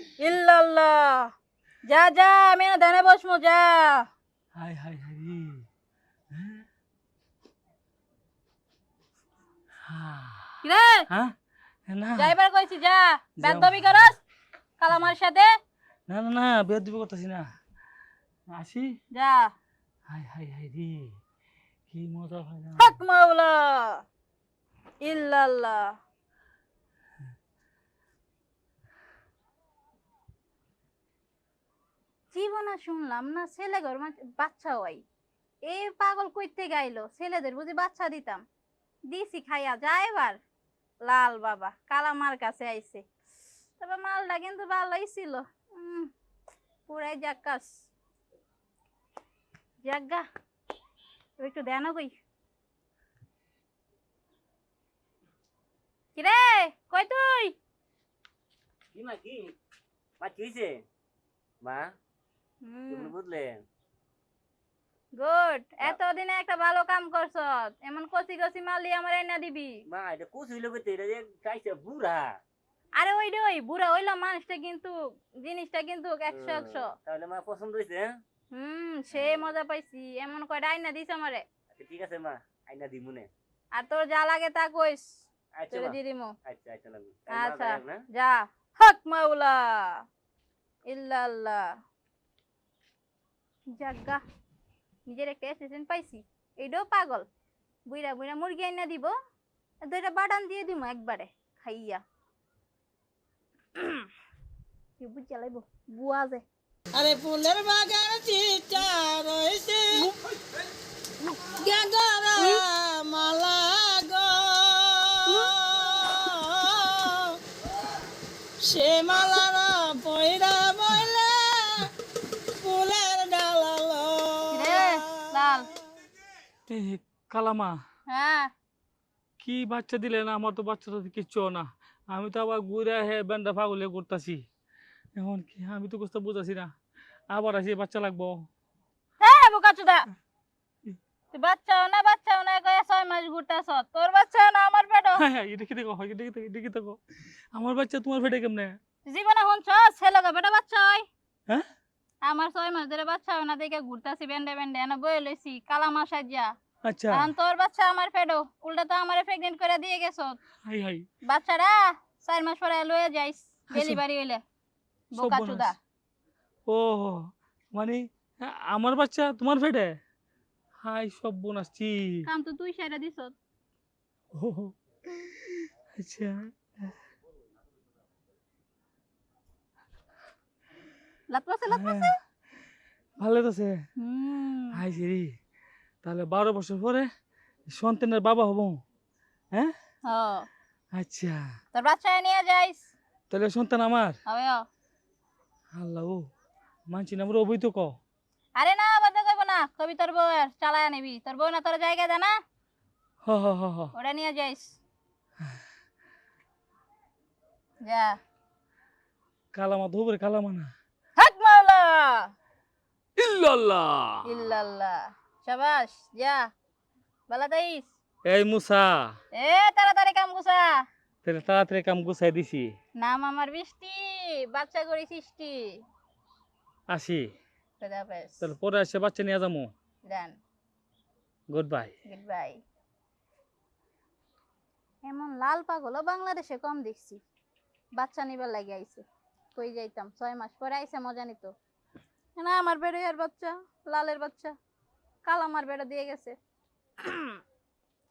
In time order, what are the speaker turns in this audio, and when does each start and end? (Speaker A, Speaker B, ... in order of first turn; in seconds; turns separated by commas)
Speaker A: 0.2-1.3, Speaker A: 1.9-4.0, Speaker B: 4.5-5.6, Speaker B: 6.3-6.6, Speaker B: 9.9-11.3, Speaker A: 10.6-11.1, Speaker B: 11.9-12.3, Speaker A: 12.2-14.2, Speaker B: 13.4-14.0, Speaker A: 14.8-15.5, Speaker B: 16.1-17.4, Speaker B: 18.5-18.9, Speaker A: 19.1-19.5, Speaker B: 20.1-21.1, Speaker B: 21.9-23.0, Speaker A: 22.8-24.0, Speaker A: 25.0-25.9, Speaker A: 32.3-35.0, Speaker A: 35.7-38.4, Speaker A: 39.1-40.4, Speaker A: 41.1-43.0, Speaker A: 43.8-46.1, Speaker A: 46.9-47.7, Speaker A: 49.8-50.2, Speaker A: 51.4-52.1, Speaker A: 56.1-57.6, Speaker C: 58.9-59.5, Speaker C: 60.2-60.7, Speaker A: 62.6-63.1, Speaker C: 62.9-63.6, Speaker A: 65.2-69.8, Speaker C: 69.9-72.3, Speaker A: 73.0-76.9, Speaker C: 76.3-78.1, Speaker A: 78.5-81.4, Speaker C: 79.1-79.5, Speaker C: 81.8-83.3, Speaker A: 83.7-85.1, Speaker C: 85.6-88.0, Speaker A: 85.7-86.3, Speaker A: 87.3-90.0, Speaker A: 90.9-91.6, Speaker A: 93.8-94.2, Speaker A: 95.1-97.2, Speaker A: 97.9-99.1, Speaker A: 99.8-102.0, Speaker A: 103.8-104.1, Speaker A: 105.0-106.4, Speaker D: 106.9-110.1, Speaker D: 111.5-117.4, Speaker A: 112.4-112.6, Speaker A: 115.2-115.6, Speaker D: 118.6-121.9, Speaker D: 122.6-125.1, Speaker A: 124.5-125.7, Speaker B: 126.7-127.8, Speaker A: 128.1-128.5, Speaker B: 129.4-134.4, Speaker B: 135.2-136.7, Speaker B: 137.3-138.5, Speaker A: 139.2-140.1, Speaker A: 141.3-145.2, Speaker B: 145.2-148.8, Speaker A: 149.1-151.1, Speaker A: 152.2-156.5, Speaker B: 156.8-157.3, Speaker A: 157.1-160.4, Speaker B: 160.7-161.1, Speaker A: 161.2-164.4, Speaker B: 163.7-164.0, Speaker A: 165.1-165.8, Speaker B: 165.2-165.7, Speaker B: 166.7-170.0, Speaker B: 170.8-172.2, Speaker A: 172.2-173.3, Speaker B: 174.3-176.9, Speaker A: 181.3-182.2, Speaker B: 181.7-182.2, Speaker B: 183.2-183.8, Speaker A: 184.0-184.8, Speaker B: 184.7-185.3, Speaker B: 186.0-187.1, Speaker B: 187.7-188.8, Speaker A: 190.1-190.5, Speaker B: 190.9-191.4, Speaker A: 191.7-192.9, Speaker B: 193.3-194.2, Speaker A: 194.3-194.6, Speaker B: 195.7-196.2, Speaker B: 196.9-197.9, Speaker A: 198.6-202.4, Speaker B: 203.2-203.9, Speaker A: 203.9-204.8, Speaker A: 207.8-208.2, Speaker B: 209.5-210.7, Speaker A: 211.2-212.3, Speaker B: 213.2-214.5, Speaker A: 214.2-216.5, Speaker A: 217.3-217.9, Speaker B: 218.2-219.2, Speaker A: 219.3-220.8, Speaker B: 221.2-222.7, Speaker A: 223.0-225.8, Speaker B: 226.9-227.3, Speaker A: 227.8-228.4, Speaker B: 228.4-229.7, Speaker A: 230.1-230.3, Speaker B: 231.5-231.9, Speaker A: 232.1-232.6, Speaker A: 235.1-237.2, Speaker A: 238.0-239.0, Speaker A: 239.6-241.5, Speaker A: 242.4-244.5, Speaker A: 245.2-246.3, Speaker A: 247.0-247.4